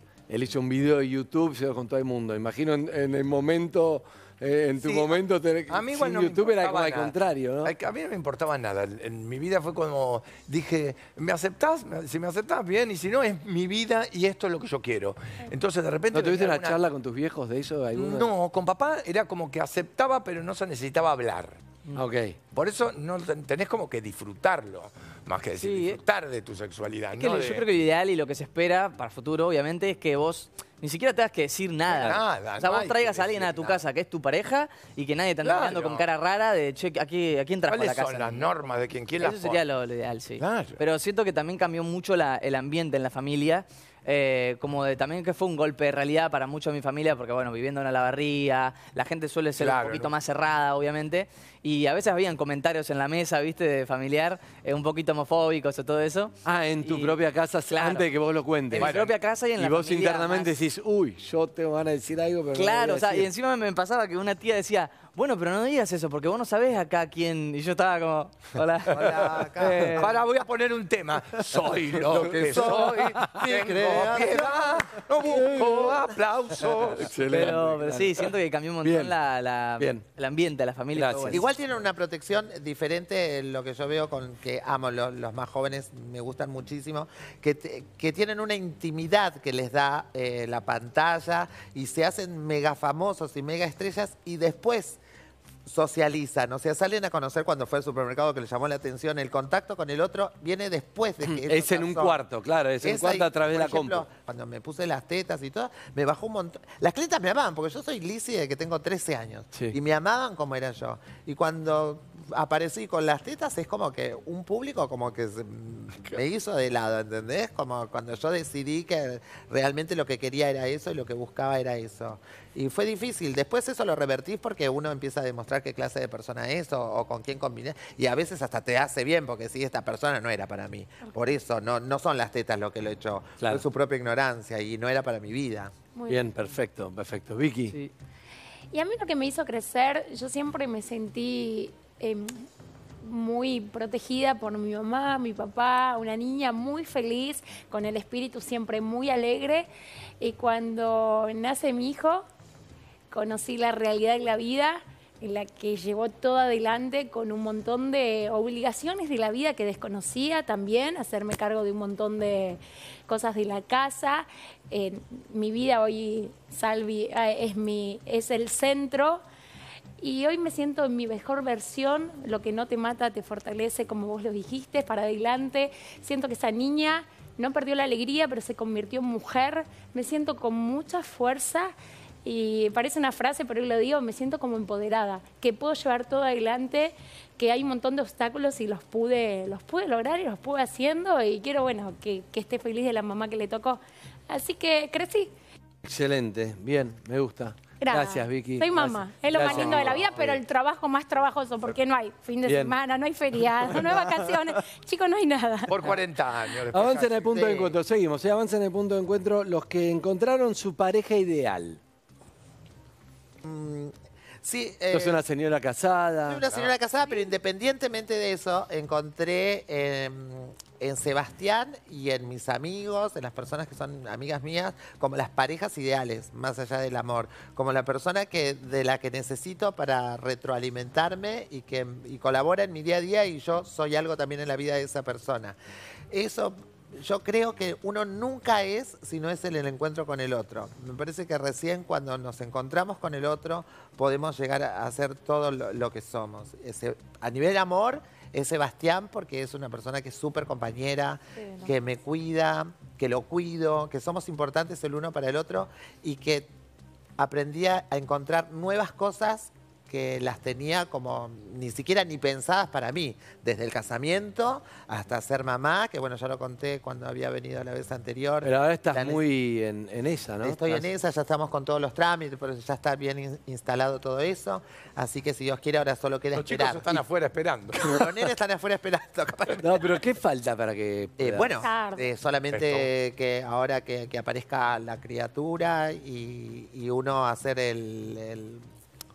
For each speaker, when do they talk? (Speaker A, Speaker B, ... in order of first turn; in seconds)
Speaker A: 0.3-7.7, 16.1-18.3, 22.0-22.4, 56.5-58.9, 59.6-63.3, 72.2-73.4, 75.2-75.6, 76.6-78.2, 78.8-79.1, 79.8-80.0, 80.9-81.5, 101.2-104.1, 136.1-137.8, 195.8-200.4, 202.4-202.8, 206.7-211.8, 214.9-216.4, 268.4-270.9, 279.6-281.5
Speaker B: 4.8-16.8, 17.9-21.6, 22.5-27.6, 31.9-33.8, 35.4-36.0, 37.7-39.6, 40.4-40.8, 49.6-50.1, 58.8-59.1, 69.9-77.5, 199.4-199.9, 205.7-207.4, 276.3-277.8, 282.5-282.9
Speaker C: 25.6-26.0, 27.2-38.5, 39.2-57.1, 57.7-58.1, 58.7-60.5, 62.5-70.1, 77.3-81.5
Speaker D: 68.9-70.0, 72.1-76.1, 81.3-95.0, 95.7-102.2, 102.8-135.7, 207.3-207.8, 213.4-215.2, 216.3-235.6, 236.1-256.5, 257.2-269.2, 270.4-277.0, 277.8-279.8, 281.2-288.7
Speaker E: 136.0-136.2, 138.7-142.5, 143.0-149.7, 150.2-152.2, 153.1-169.2, 170.0-181.7, 182.2-195.3, 197.8-205.9, 251.4-251.7, 281.6-282.0